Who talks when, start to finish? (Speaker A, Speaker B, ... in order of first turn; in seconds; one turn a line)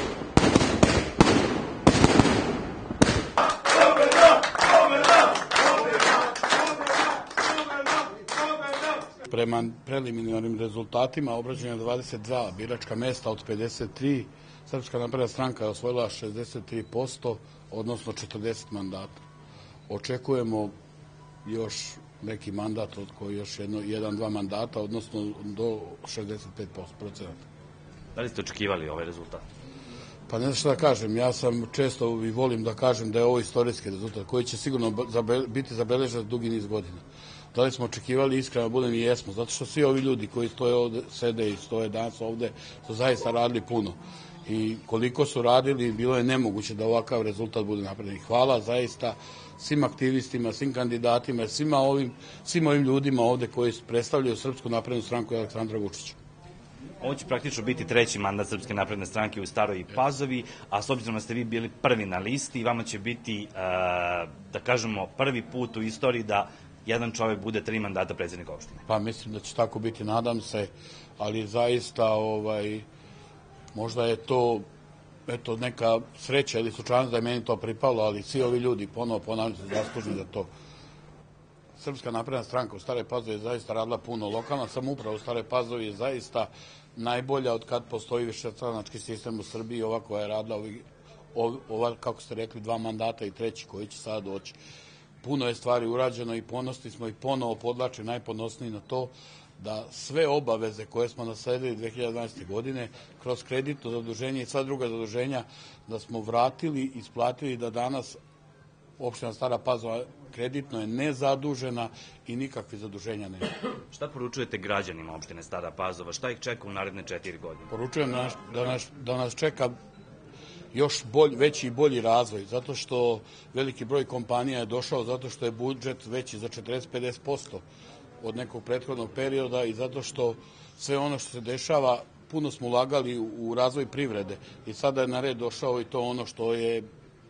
Speaker A: 9.3-19.2
Speaker A: 19.9-20.7
Speaker A: 21.4-27.4
Speaker B: 28.1-29.4
Speaker A: 30.3-37.0
Speaker A: 37.5-56.2
Speaker B: 57.0-68.8
Speaker A: 68.9-72.8
Speaker A: 73.7-74.6
Speaker A: 75.3-80.5
Speaker A: 81.8-90.8
Speaker A: 91.3-94.6
Speaker A: 95.2-108.2
Speaker A: 109.0-113.5
Speaker B: 113.9-117.7
Speaker A: 117.7-119.7
Speaker A: 120.7-127.6
Speaker A: 128.2-136.8